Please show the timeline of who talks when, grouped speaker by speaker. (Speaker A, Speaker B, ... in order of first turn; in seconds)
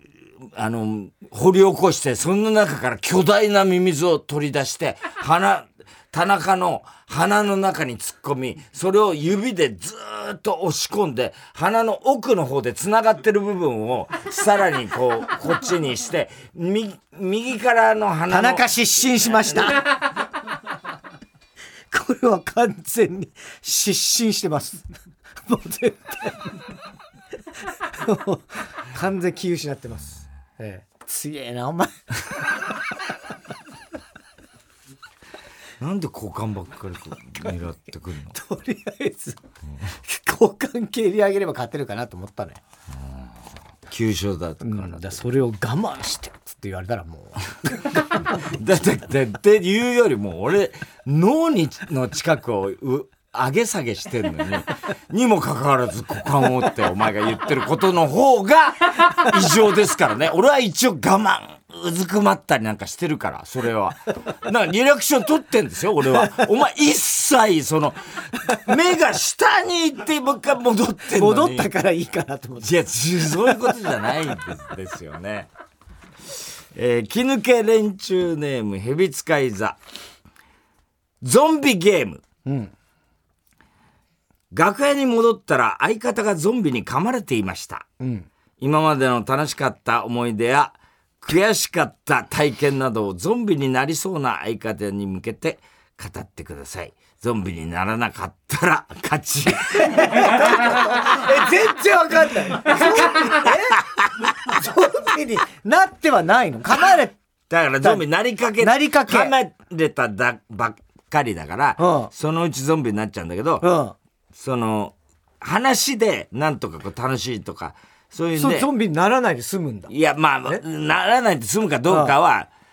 Speaker A: 0.4-18.7, 35.8-38.4, 43.0-43.3, 43.9-45.2, 48.3-71.7, 72.6-75.5, 76.3-79.8, 81.2-82.2, 84.5-87.9, 88.6-101.3, 102.6-104.3, 107.5-113.7, 114.3-118.7, 119.9-122.5
Speaker B: 18.3-19.9, 21.9-24.9, 25.5-26.6, 27.7-32.6, 38.3-42.6, 44.6-48.6, 71.1-73.9, 82.5-82.7, 88.0-88.3, 99.7-107.2, 108.6-109.3, 111.8-112.1, 113.6-114.0, 118.4-119.9, 121.9-122.1